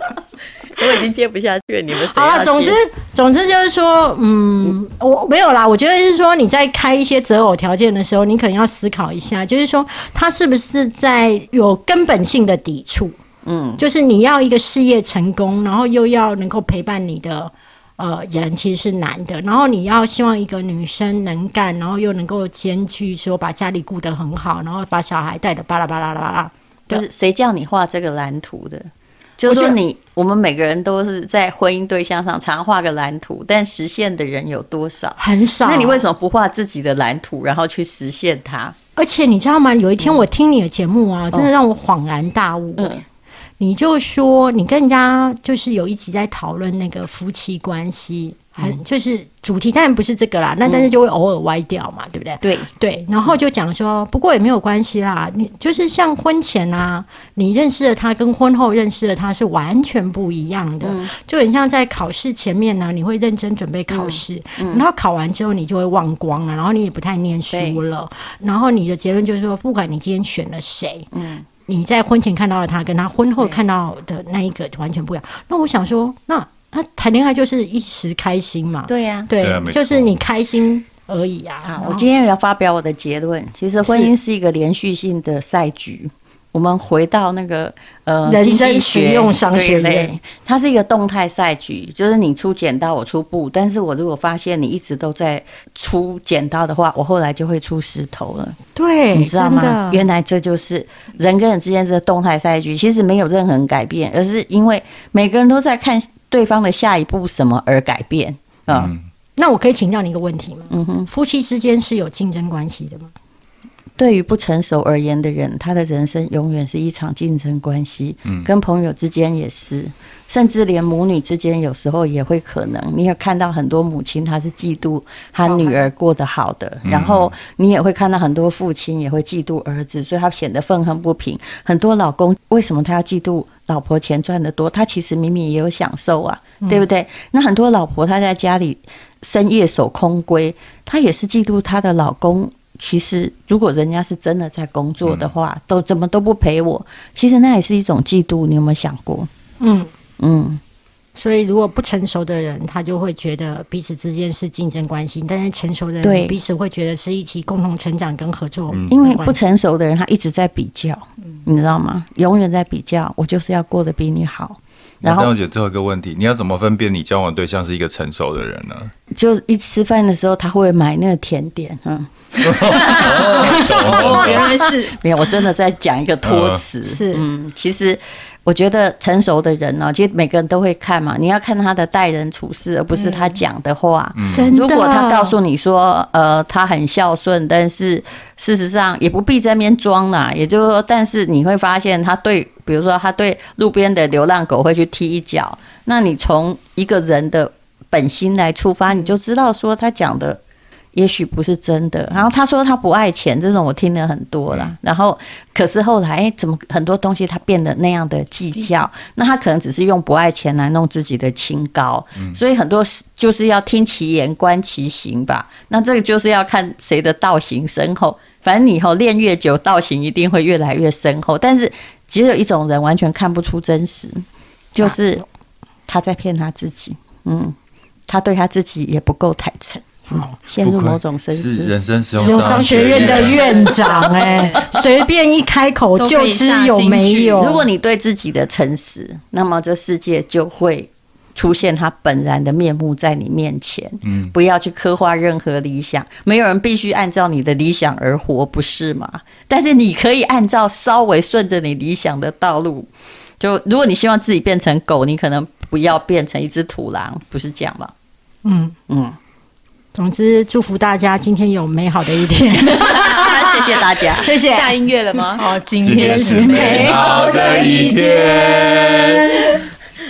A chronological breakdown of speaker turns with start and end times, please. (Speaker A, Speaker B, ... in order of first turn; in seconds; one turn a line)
Speaker A: 0.7-2.8
Speaker B: 2.0-13.2
Speaker A: 13.4-13.8
Speaker B: 13.8-27.0
Speaker A: 26.9-38.8
Speaker B: 29.4-29.8
Speaker B: 35.2-36.0
Speaker B: 39.0-43.0
Speaker A: 42.8-43.0
Speaker B: 43.6-71.1
Speaker A: 50.6-50.9
Speaker A: 52.4-52.7
Speaker A: 60.8-61.1
Speaker A: 63.9-64.8
Speaker A: 67.5-67.8
Speaker A: 71.1-71.4
Speaker B: 71.7-82.1
Speaker A: 78.9-79.3
Speaker C: 79.3-80.1
Speaker A: 81.6-98.6
Speaker B: 83.8-84.1
Speaker B: 88.2-90.1
Speaker B: 98.8-100.0
Speaker A: 99.1-108.9
Speaker C: 108.7-109.0
Speaker B: 109.4-113.1
Speaker A: 110.7-111.1
Speaker A: 114.0-149.3
Speaker B: 125.4-125.8
Speaker C: 126.8-127.3
Speaker B: 149.6-149.9
Speaker A: 150.2-150.6
Speaker B: 151.2-159.5
Speaker A: 156.0-156.4
Speaker C: 158.7-159.0
Speaker A: 158.9-165.3
Speaker C: 165.0-168.9
Speaker A: 169.1-173.5
Speaker C: 172.4-174.5
Speaker D: 173.5-175.0
Speaker A: 174.0-200.4
Speaker C: 176.2-176.6
Speaker B: 176.8-177.2
Speaker D: 182.9-183.3
Speaker C: 184.2-184.5
Speaker B: 184.3-185.3
Speaker A: 200.9-225.2
Speaker A: 225.9-227.6
Speaker A: 228.1-231.8
Speaker B: 230.1-230.3
Speaker C: 230.6-233.6
Speaker B: 232.1-237.7
Speaker D: 232.5-234.7
Speaker D: 236.0-237.4
Speaker A: 237.4-257.9
Speaker C: 244.1-244.3
Speaker B: 258.4-258.8
Speaker A: 258.9-259.1
Speaker B: 259.9-264.7
Speaker A: 262.7-264.3
Speaker E: 264.4-265.5
Speaker D: 265.3-267.0
Speaker C: 265.8-269.4
Speaker B: 265.9-269.6
Speaker E: 266.2-268.1